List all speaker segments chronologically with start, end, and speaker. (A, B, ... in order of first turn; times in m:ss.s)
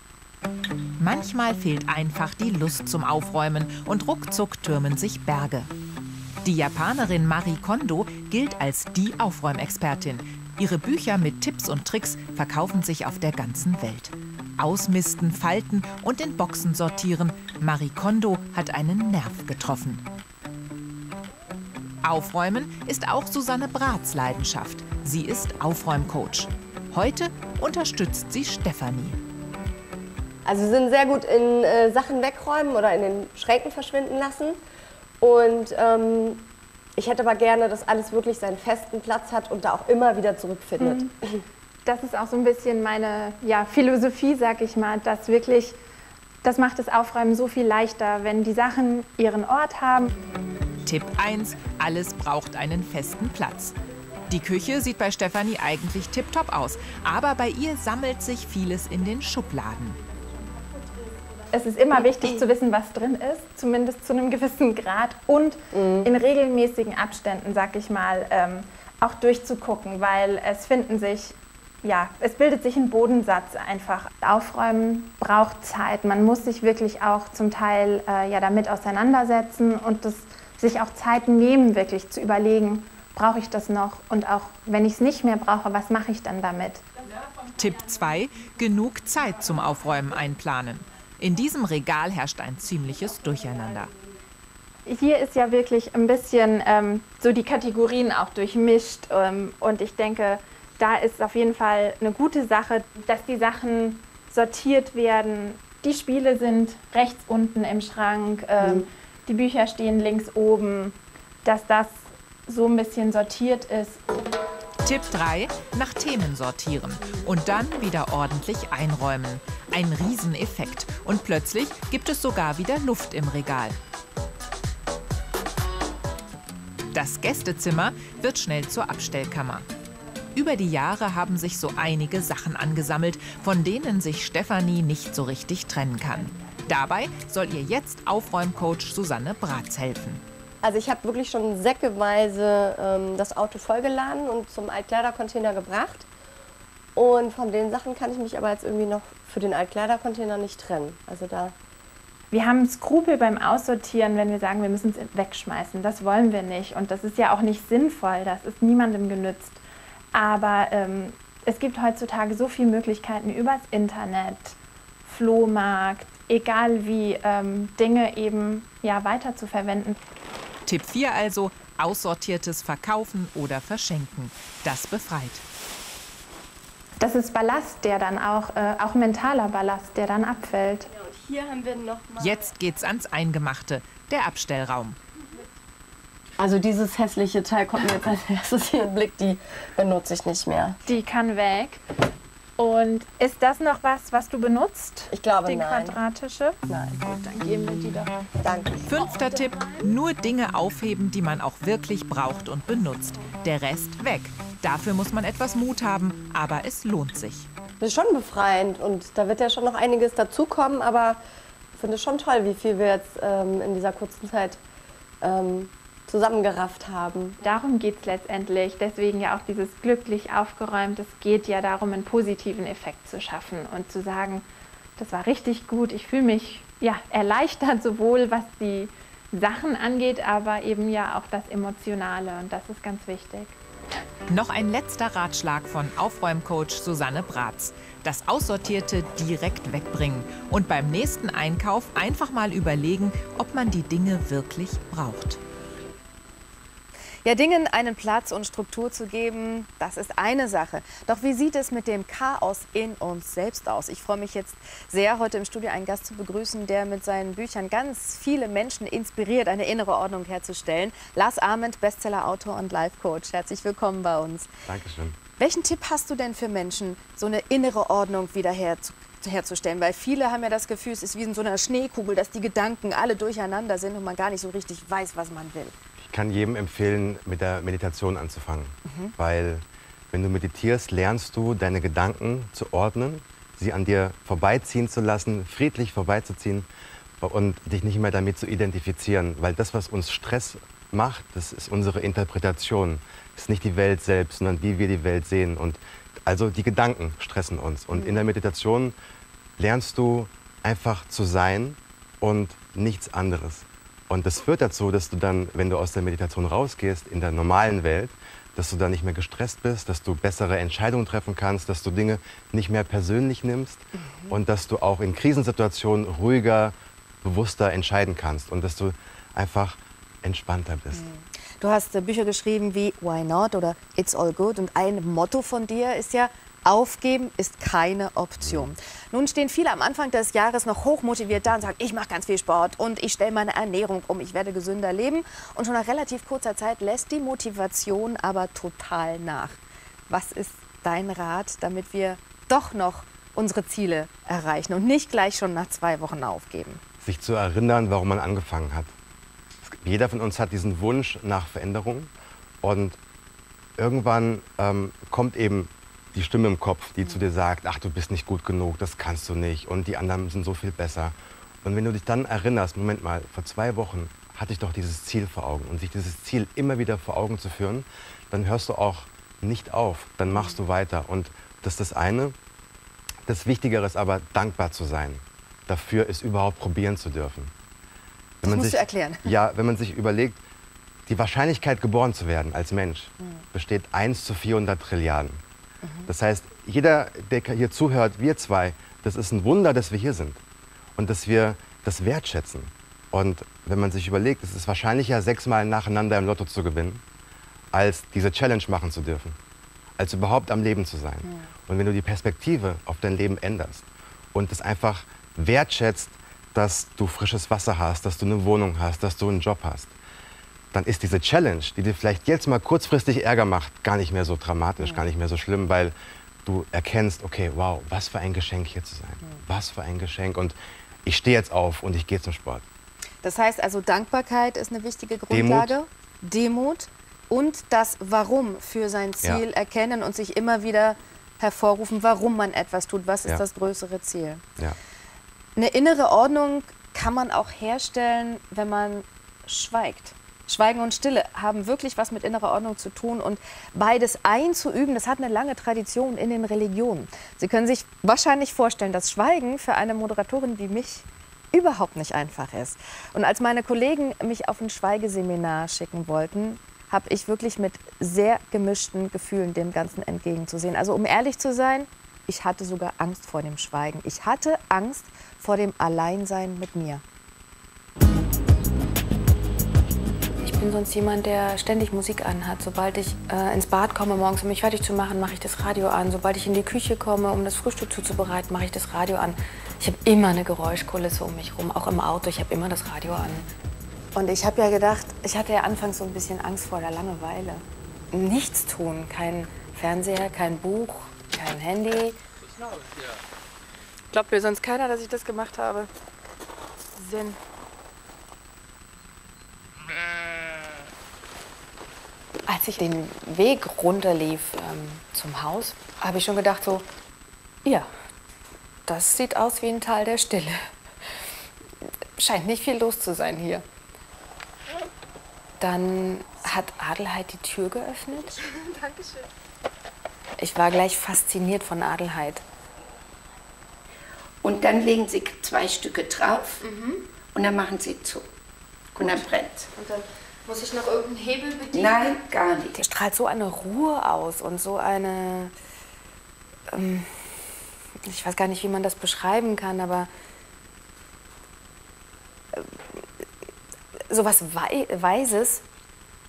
0:01.0-0:05.7 A
0:06.4-0:20.0 A
0:22.0-0:29.2 A
0:30.4-0:34.6 B
0:35.2-0:41.4 B
0:40.8-0:41.1 C
0:41.8-0:45.8 C
0:46.4-0:50.1 C
0:50.8-0:53.7 A
0:54.3-1:00.0 A
1:01.5-1:26.8 C
1:05.7-1:06.1 B
1:27.6-1:33.9 A
1:34.8-1:54.0 C
1:54.8-2:03.8 A
2:06.9-2:09.7 A
2:10.3-2:20.2 A
2:20.6-2:26.1 B
2:27.0-2:31.6 B
2:32.3-2:39.6 C
2:40.1-2:50.0 C
2:50.6-2:55.4 A
2:57.0-3:00.9 C
3:00.9-3:02.5 B
3:02.2-3:05.0 A
3:06.4-3:10.8 B
3:10.9-3:11.8 C
3:12.6-3:18.1 C
3:15.1-3:16.0 B
3:16.7-3:17.2 B
3:18.4-3:19.0 B
3:18.8-3:27.5 A
3:27.8-3:31.2 B
3:31.8-3:34.6 B
3:35.2-3:37.4 B
3:37.4-3:44.4 C
3:45.0-3:53.6 C
3:54.3-4:05.4 A
4:07.2-4:24.5 D
4:24.6-4:25.2 E
4:25.4-4:35.7 D
4:36.0-4:46.7 E
4:38.8-4:39.1 D
4:47.2-4:58.9 E
4:57.9-4:58.2 D
4:59.6-5:21.1 E
5:13.9-5:14.4 D
5:20.9-5:46.8 D
5:28.4-5:28.7 E
5:47.0-5:48.9 E
5:49.6-5:52.1 E
5:52.6-5:53.0 E
5:53.8-6:12.4 E
6:13.2-6:17.5 E
6:18.4-6:19.3 D
6:18.4-6:20.4 E
6:21.1-6:25.4 E
6:25.8-6:26.1 D
6:26.1-6:30.4 E
6:31.0-6:37.0 E
6:37.7-6:39.4 E
6:40.0-6:49.9 E
6:50.7-6:55.9 E
6:56.4-7:02.6 E
7:03.2-7:14.4 D
7:05.3-7:05.7 E
7:15.6-7:47.0 D
7:50.4-8:03.5 D
8:04.1-8:12.2 D
8:14.1-8:15.9 D
8:17.0-8:17.4 D
8:22.5-8:26.8 D
8:28.9-8:30.6 D
8:32.2-8:33.6 D
8:35.6-8:39.1 D
8:40.4-8:42.4 D
8:44.4-8:46.6 F
8:46.6-8:47.0 D
8:47.3-8:48.2 F
8:49.0-8:52.2 D
8:49.0-8:49.7 F
8:51.7-8:52.8 F
8:52.7-8:55.5 D
8:56.7-8:57.1 D
8:58.0-9:00.1 D
9:02.5-9:03.0 D
9:04.1-9:05.6 D